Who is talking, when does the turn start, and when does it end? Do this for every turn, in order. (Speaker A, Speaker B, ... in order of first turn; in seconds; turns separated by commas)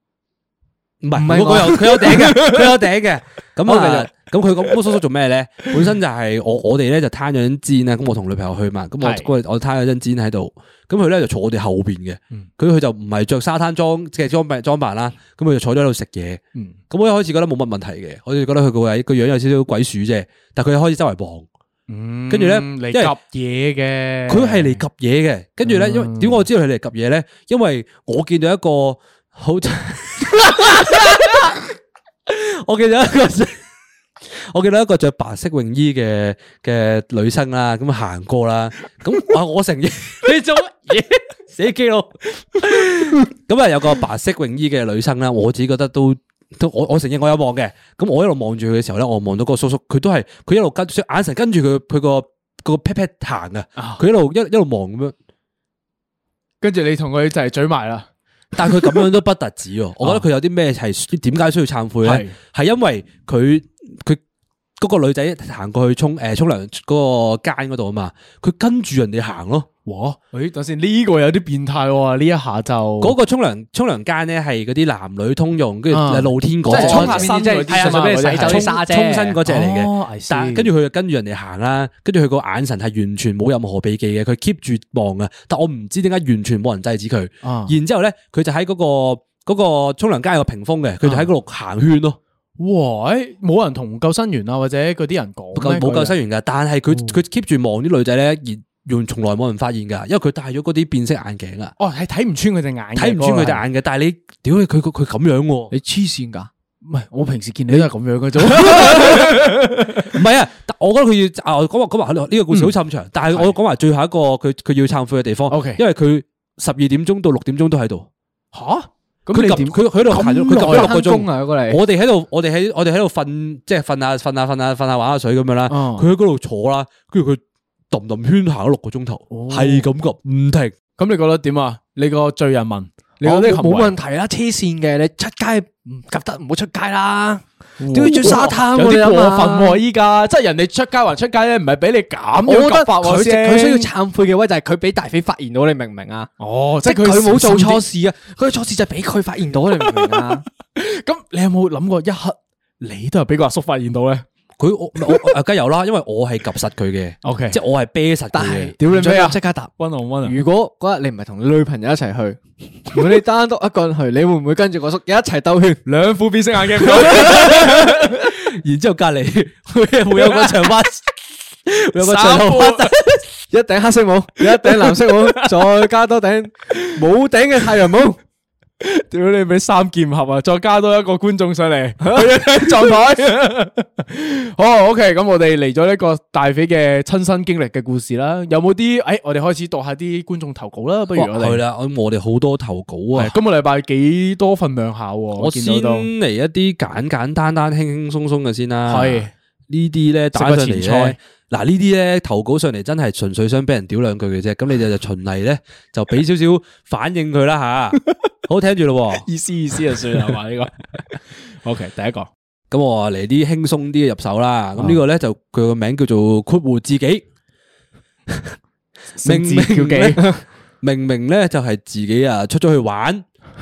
Speaker A: 1.0-21.5, Speaker B: 1.1-2.1, Speaker C: 1.9-2.7, Speaker C: 3.7-4.0, Speaker C: 9.0-9.3, Speaker C: 21.9-24.8, Speaker A: 22.3-23.1, Speaker A: 24.3-31.7, Speaker C: 25.6-26.4, Speaker A: 32.3-33.6, Speaker A: 34.2-55.1, Speaker C: 53.8-54.0, Speaker C: 56.6-58.1, Speaker A: 58.5-64.2, Speaker C: 58.6-59.0, Speaker C: 62.0-62.4, Speaker A: 64.8-69.7, Speaker C: 69.9-73.1, Speaker A: 73.0-92.2, Speaker C: 75.9-78.8, Speaker B: 76.7-79.4, Speaker C: 79.4-80.7, Speaker C: 87.4-87.8, Speaker C: 91.0-91.3, Speaker C: 92.6-96.2, Speaker A: 95.5-101.8, Speaker C: 96.9-97.2, Speaker C: 101.8-103.6, Speaker A: 103.0-105.7, Speaker B: 105.7-106.5, Speaker C: 106.8-110.1, Speaker A: 108.5-118.1, Speaker C: 112.5-112.8, Speaker C: 113.3-113.5, Speaker C: 115.5-115.8, Speaker C: 118.5-119.8, Speaker A: 119.3-130.8, Speaker B: 120.1-121.8, Speaker C: 120.5-120.9, Speaker C: 125.7-126.1, Speaker C: 129.3-129.9, Speaker C: 131.0-133.9, Speaker B: 133.2-139.8, Speaker C: 137.8-143.9, Speaker B: 142.4-146.3, Speaker C: 146.4-147.8, Speaker B: 146.8-150.4, Speaker C: 149.8-154.2, Speaker A: 154.6-158.7, Speaker C: 157.2-157.6, Speaker B: 158.3-159.7, Speaker C: 158.8-160.4, Speaker B: 160.2-165.8, Speaker C: 165.9-168.2, Speaker A: 167.0-173.3, Speaker C: 170.2-170.6, Speaker C: 171.9-172.9, Speaker B: 173.5-178.2, Speaker C: 174.5-175.8, Speaker C: 178.8-191.6, Speaker A: 191.1-193.4, Speaker C: 193.1-196.1, Speaker A: 195.4-209.3, Speaker C: 198.9-199.3, Speaker C: 200.3-201.2, Speaker C: 209.2-212.3, Speaker A: 212.7-217.2, Speaker C: 219.1-220.4, Speaker A: 219.2-220.2, Speaker A: 220.8-223.2